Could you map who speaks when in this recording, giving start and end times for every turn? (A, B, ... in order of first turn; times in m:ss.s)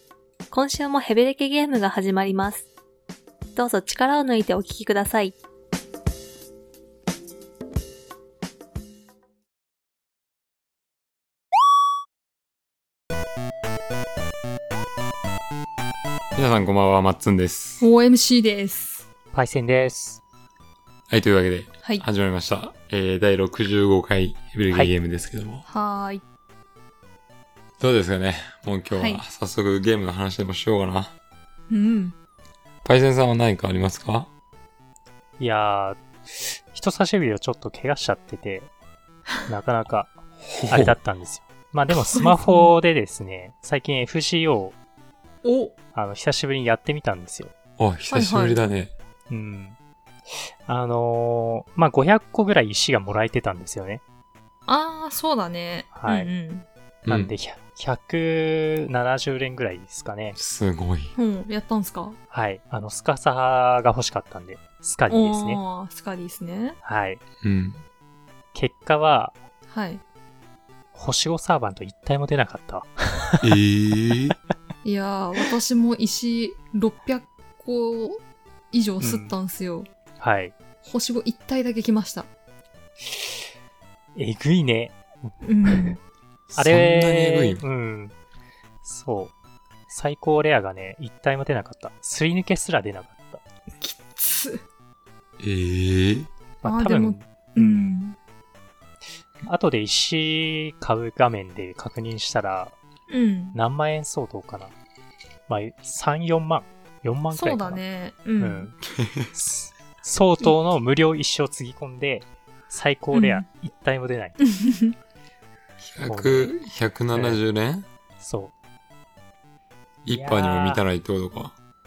0:00.5-0:02.7 A
0:03.6-0:05.4 A
0:16.4-0:17.8 B
0:17.8-0:19.1 C
0:19.3-0:20.2 D
0:21.1-0:25.6 B
0:25.7-0:26.2 C
0:27.8-0:31.1 B
0:28.9-0:29.2 C
0:31.7-0:32.2 C
0:32.8-0:34.3 B
0:35.4-0:38.7 D
0:39.4-0:44.8 D
0:40.4-0:41.0 B
0:41.9-0:42.8 C
0:45.4-0:45.7 C
0:45.9-0:47.5 D
0:47.8-0:48.9 B
0:48.1-0:48.6 C
0:49.3-0:49.8 D
0:50.3-0:54.0 D
0:54.7-0:56.7 C
0:56.0-0:56.3 D
0:57.0-0:57.3 B
0:57.1-1:00.4 D
1:00.4-1:01.1 B
1:01.2-1:02.2 C
1:02.3-1:05.6 D
1:05.1-1:06.8 C
1:06.8-1:07.2 D
1:07.4-1:07.8 B
1:08.5-1:09.4 D
1:09.7-1:10.0 C
1:10.9-1:13.5 D
1:13.4-1:14.4 B
1:14.8-1:19.9 C
1:19.0-1:19.4 D
1:20.2-1:20.5 D
1:20.8-1:22.3 C
1:23.1-1:23.4 D
1:24.2-1:26.0 D
1:25.4-1:26.0 C
1:26.5-1:27.6 B
1:26.5-1:28.1 D
1:28.8-1:29.3 D
1:29.9-1:33.4 D
1:33.8-1:34.6 C
1:35.4-1:36.3 B
1:36.6-1:38.0 D
1:36.6-1:38.2 C
1:39.4-1:42.8 D
1:43.1-1:43.6 C
1:43.5-1:44.7 D
1:45.5-1:47.8 D
1:47.3-1:48.7 C
1:48.4-1:48.8 D
1:48.9-1:49.3 B
1:49.3-1:54.4 D
1:53.1-1:53.4 C
1:54.4-1:54.9 C
1:55.8-1:57.8 B
1:56.1-1:56.6 D
1:57.1-1:57.4 D
1:58.2-1:58.5 D
2:00.0-2:01.5 B
2:00.1-2:00.8 D